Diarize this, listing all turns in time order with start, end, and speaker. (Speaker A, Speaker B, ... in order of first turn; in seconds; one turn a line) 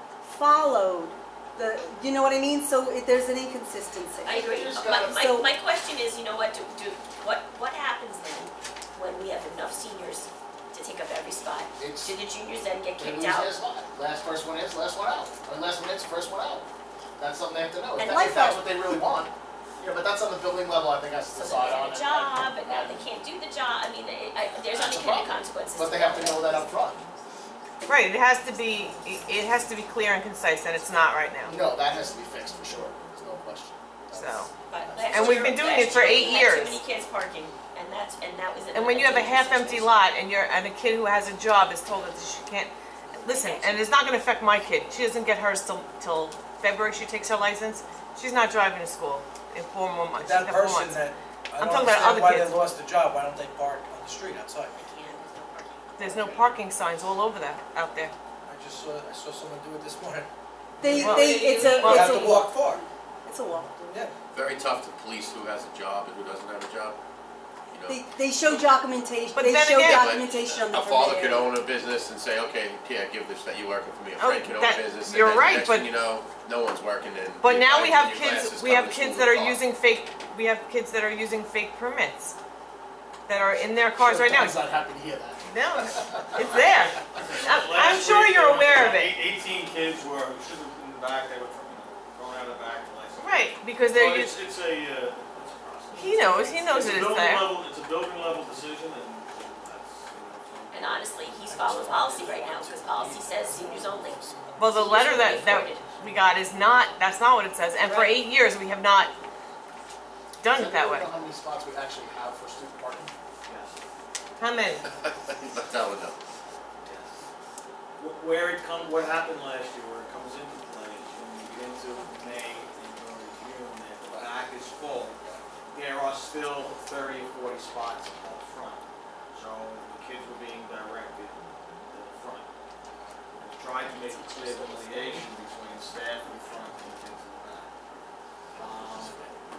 Speaker A: 0.3-5.5
Speaker B: 4.2-13.6
Speaker C: 4.5-5.3
Speaker C: 11.8-12.1
Speaker C: 13.0-23.1
Speaker A: 18.0-19.0
Speaker B: 18.0-18.3
Speaker B: 21.3-26.7
Speaker C: 24.7-27.0
Speaker D: 27.9-31.6
Speaker C: 31.5-36.2
Speaker D: 34.1-34.5
Speaker B: 34.7-40.0
Speaker D: 35.1-36.8
Speaker D: 38.8-51.0
Speaker B: 43.1-44.0
Speaker E: 50.2-54.7
Speaker D: 51.6-52.5
Speaker B: 54.7-56.6
Speaker D: 56.0-58.1
Speaker E: 58.4-60.3
Speaker A: 60.8-63.8
Speaker E: 60.9-62.8
Speaker D: 61.0-62.2
Speaker B: 61.1-61.8
Speaker E: 63.9-64.1
Speaker F: 64.3-67.0
Speaker F: 67.7-68.0
Speaker A: 67.9-71.6
Speaker D: 69.3-71.2
Speaker F: 70.0-79.6
Speaker D: 74.2-76.0
Speaker D: 77.4-82.3
Speaker D: 83.3-84.6
Speaker C: 84.0-86.9
Speaker D: 85.5-89.2
Speaker G: 86.7-101.3
Speaker D: 93.2-94.3
Speaker D: 96.0-97.5
Speaker B: 100.7-105.8
Speaker E: 101.5-104.8
Speaker G: 102.0-102.3
Speaker D: 104.6-109.1
Speaker G: 104.9-106.3
Speaker B: 107.8-108.2
Speaker D: 110.4-111.1
Speaker C: 110.5-113.1
Speaker G: 113.5-113.8
Speaker D: 114.4-114.8
Speaker F: 115.1-116.2
Speaker G: 116.8-117.2
Speaker G: 118.0-132.5
Speaker G: 133.4-137.7
Speaker B: 134.0-135.1
Speaker G: 138.6-139.2